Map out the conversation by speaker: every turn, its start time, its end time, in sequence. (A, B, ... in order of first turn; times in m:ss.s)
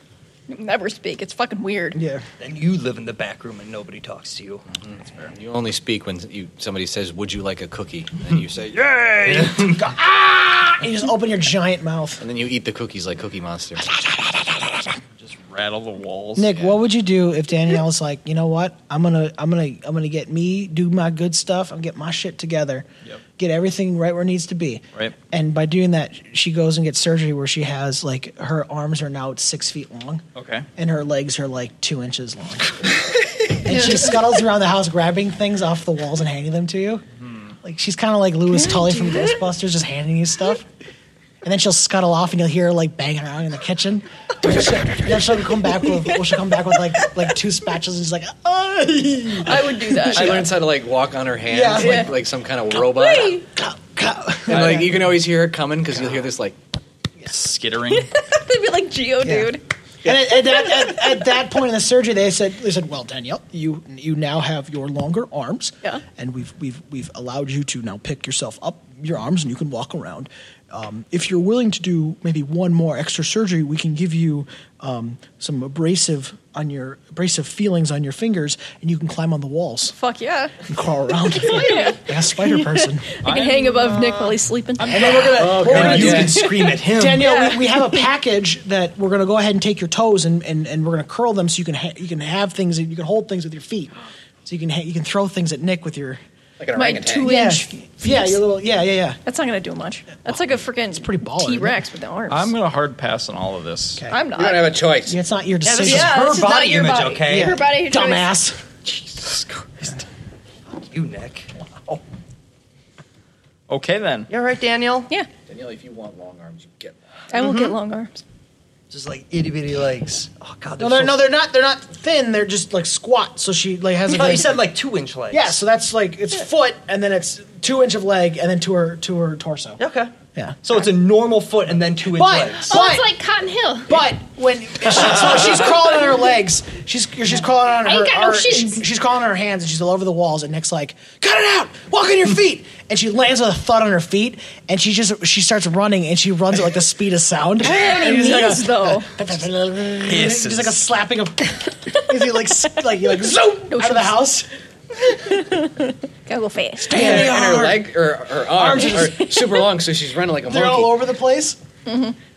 0:00.5-0:02.0 A
0:01.9-0:02.2 B
0:02.4-0:04.6 C
0:04.9-0:09.5 D
0:05.0-0:05.3 E
0:09.2-0:09.8 C
0:09.7-0:12.2 B
0:12.2-0:13.9 D
0:13.8-0:15.0 B
0:15.2-0:16.7 E
0:16.4-0:22.8 B
0:23.4-0:30.2 B
0:30.3-0:30.7 E
0:30.8-0:33.0 B
0:33.5-0:37.0 B
0:37.2-0:37.5 E
0:37.6-0:40.7 B
0:38.6-0:39.3 A
0:41.4-0:50.4 B
0:49.4-0:50.5 A
0:50.0-0:53.4 D
0:51.5-0:52.1 B
0:51.7-0:52.1 A
0:52.7-0:53.4 A
0:53.6-0:55.1 B
0:54.5-0:56.6 D
0:57.3-0:58.1 E
0:57.9-0:59.6 A
0:59.2-1:19.9 B
1:19.9-1:20.6 A
1:20.6-1:23.1 B
1:21.4-1:25.0 A
1:23.2-1:26.1 E
1:24.9-1:27.3 C
1:24.9-1:33.9 B
1:25.3-1:26.4 D
1:26.3-1:28.0 A
1:34.4-1:36.2 B
1:36.6-1:37.3 D
1:36.7-1:38.4 A
1:37.2-1:39.2 B
1:39.2-1:42.5 A
1:40.2-1:41.8 B
1:42.3-1:44.0 E
1:44.1-1:44.8 A
1:44.3-1:45.2 D
1:45.0-1:46.6 B
1:45.6-1:47.6 C
1:45.8-1:47.0 A
1:46.8-1:48.2 F
1:47.2-1:48.6 B
1:50.7-1:51.5 C
1:53.7-1:54.3 E
1:54.3-1:55.1 C
1:55.5-1:57.0 D
1:57.3-1:58.2 A
1:57.4-1:57.7 C
1:58.9-2:01.3 C
2:00.8-2:04.7 B
2:04.0-2:05.6 C
2:05.3-2:09.8 B
2:09.8-2:10.1 C
2:10.3-2:10.8 B
2:10.6-2:12.7 C
2:12.0-2:13.1 B
2:12.6-2:14.0 F
2:13.9-2:34.5 B
2:17.8-2:18.8 F
2:27.6-2:29.1 A
2:30.0-2:30.8 E
2:33.7-2:34.2 A
2:35.0-2:37.1 A
2:36.8-2:37.9 B
2:36.9-2:41.0 D
2:38.5-2:39.4 B
2:38.8-2:39.6 A
2:40.4-2:41.6 B
2:41.9-2:42.1 A